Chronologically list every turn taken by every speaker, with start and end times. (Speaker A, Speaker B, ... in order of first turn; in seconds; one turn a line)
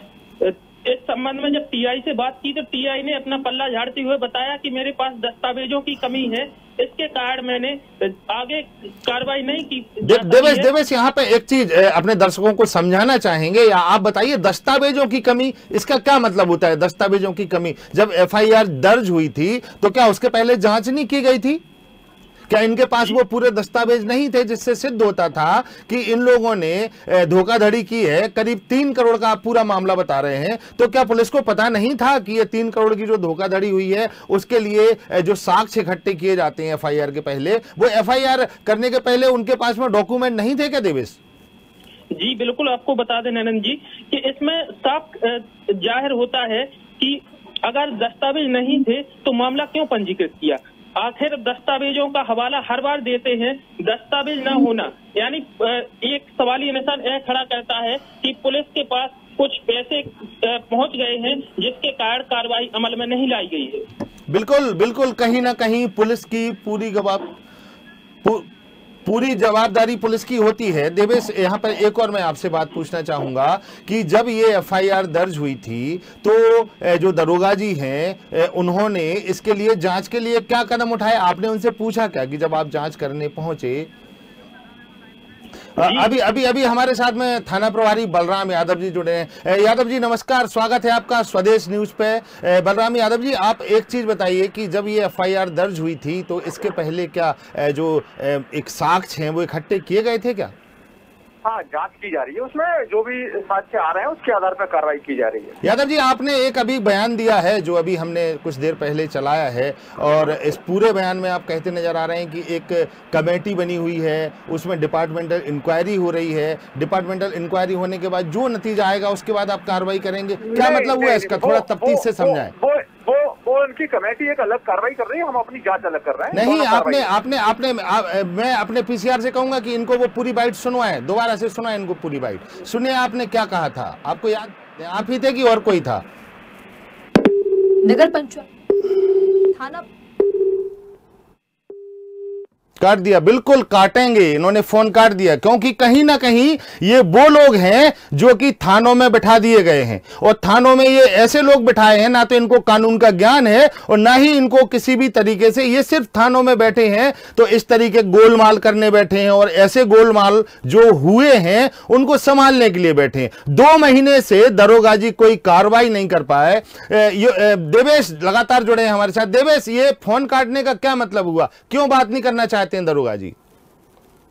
Speaker A: 0.4-10.7
Speaker B: 10.0-21.6
Speaker B: 22.5-41.2
Speaker A: 42.1-63.9
Speaker B: 64.3-67.3
Speaker B: 69.0-83.9
Speaker B: 85.8-100.5
Speaker C: 101.4-105.6
Speaker B: 105.6-122.5
Speaker C: 120.4-127.1
Speaker B: 126.3-136.0
Speaker D: 137.8-139.8
Speaker B: 142.8-173.3